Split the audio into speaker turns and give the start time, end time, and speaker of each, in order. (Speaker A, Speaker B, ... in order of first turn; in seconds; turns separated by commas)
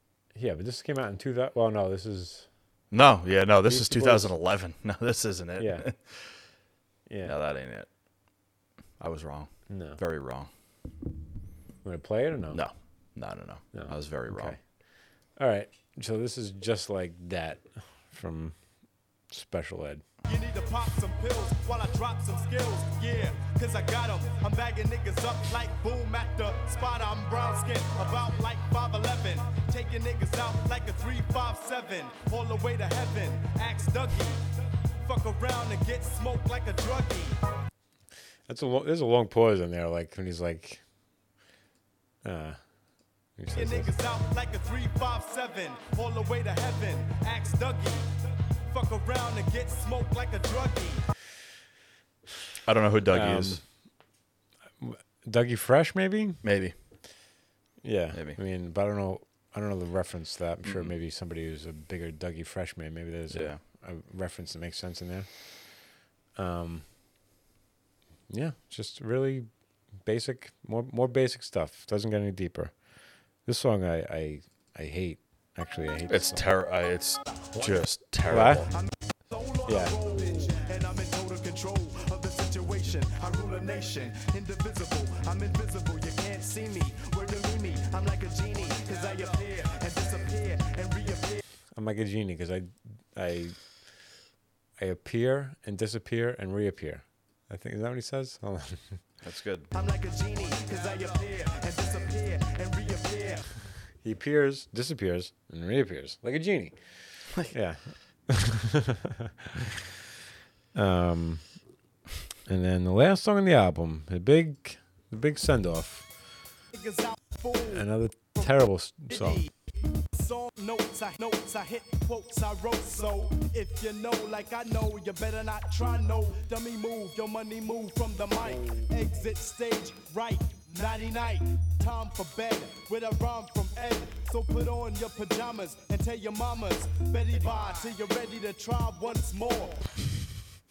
Speaker A: 0.3-2.5, Speaker B: 2.9-6.3, Speaker A: 3.7-4.3, Speaker A: 5.6-5.9, Speaker A: 7.1-7.3, Speaker B: 7.2-7.9, Speaker B: 9.0-10.5, Speaker A: 9.7-10.0, Speaker A: 11.8-12.6, Speaker B: 12.5-14.6, Speaker A: 13.7-14.6, Speaker A: 15.4-18.6, Speaker A: 19.3-20.0, Speaker C: 20.2-34.4, Speaker C: 35.0-37.4, Speaker A: 38.5-40.8, Speaker A: 42.2-42.6, Speaker A: 43.4-43.9, Speaker C: 43.5-48.1, Speaker C: 48.6-51.0, Speaker B: 52.6-53.6, Speaker A: 53.1-53.6, Speaker A: 54.8-56.4, Speaker B: 56.4-56.7, Speaker A: 57.8-66.8, Speaker B: 58.1-58.4, Speaker B: 60.6-60.9, Speaker B: 63.3-63.6, Speaker A: 68.3-69.5, Speaker A: 70.0-72.8, Speaker A: 73.4-76.5, Speaker B: 76.1-78.7, Speaker A: 78.3-78.7, Speaker C: 79.3-91.4, Speaker A: 79.7-79.9, Speaker A: 91.7-93.7, Speaker A: 94.8-99.0, Speaker B: 99.2-99.7, Speaker C: 99.7-103.5, Speaker A: 104.0-106.8, Speaker A: 107.4-109.7, Speaker A: 110.7-111.5, Speaker A: 112.5-116.1, Speaker C: 116.7-117.8, Speaker A: 117.7-119.5, Speaker C: 120.1-139.9